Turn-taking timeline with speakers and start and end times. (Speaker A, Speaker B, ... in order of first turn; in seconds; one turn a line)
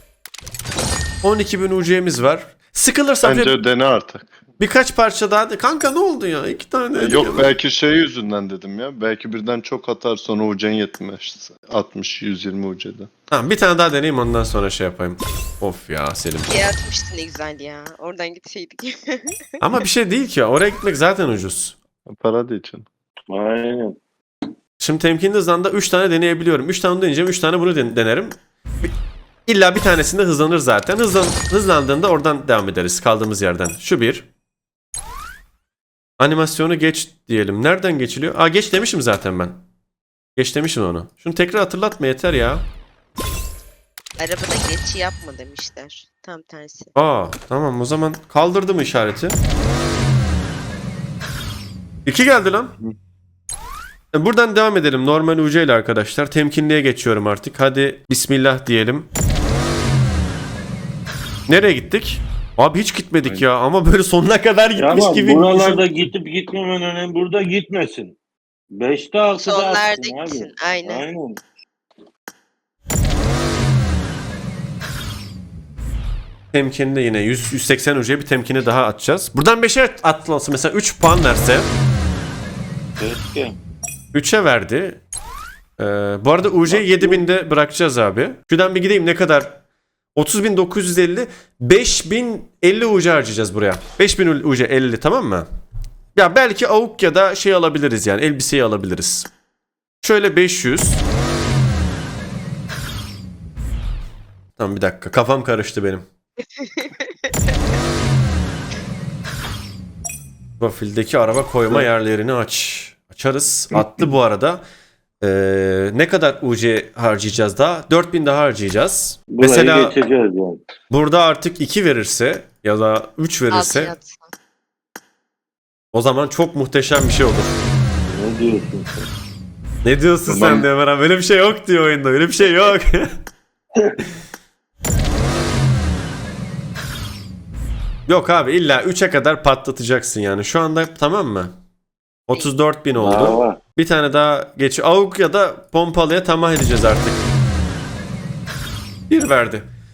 Speaker A: 1.2-3.6
Speaker B: 3.2-4.3
Speaker A: 4.6-7.5
Speaker B: 7.0-13.1
Speaker A: 13.3-16.5
Speaker C: 16.4-19.4
Speaker A: 19.6-21.8
Speaker B: 22.1-22.9
Speaker D: 23.3-24.0
Speaker A: 24.8-28.9
Speaker A: 29.5-34.2
Speaker A: 36.2-39.6
Speaker A: 40.4-42.7
Speaker C: 44.2-46.9
Speaker A: 46.9-49.4
Speaker A: 52.0-52.7
Speaker A: 54.1-59.1
Speaker A: 61.5-65.8
Speaker D: 64.8-68.2
Speaker D: 68.7-71.4
Speaker C: 69.3-71.0
Speaker A: 76.5-81.7
Speaker D: 83.0-83.6
Speaker A: 84.1-85.0
Speaker A: 85.8-89.6
Speaker D: 86.7-87.2
Speaker A: 90.1-95.5
Speaker A: 96.2-99.3
Speaker A: 100.0-101.0
Speaker A: 104.6-106.0
Speaker C: 106.6-106.9
Speaker A: 110.6-114.6
Speaker A: 115.2-120.0
Speaker D: 119.3-120.6
Speaker A: 120.9-123.9
Speaker C: 123.5-124.3
Speaker A: 125.9-127.5
Speaker D: 128.1-129.1
Speaker A: 129.8-133.1
Speaker B: 130.3-130.7
Speaker D: 133.8-134.0
Speaker A: 138.1-141.6
Speaker A: 142.3-147.2
Speaker D: 143.0-143.6
Speaker A: 149.1-149.7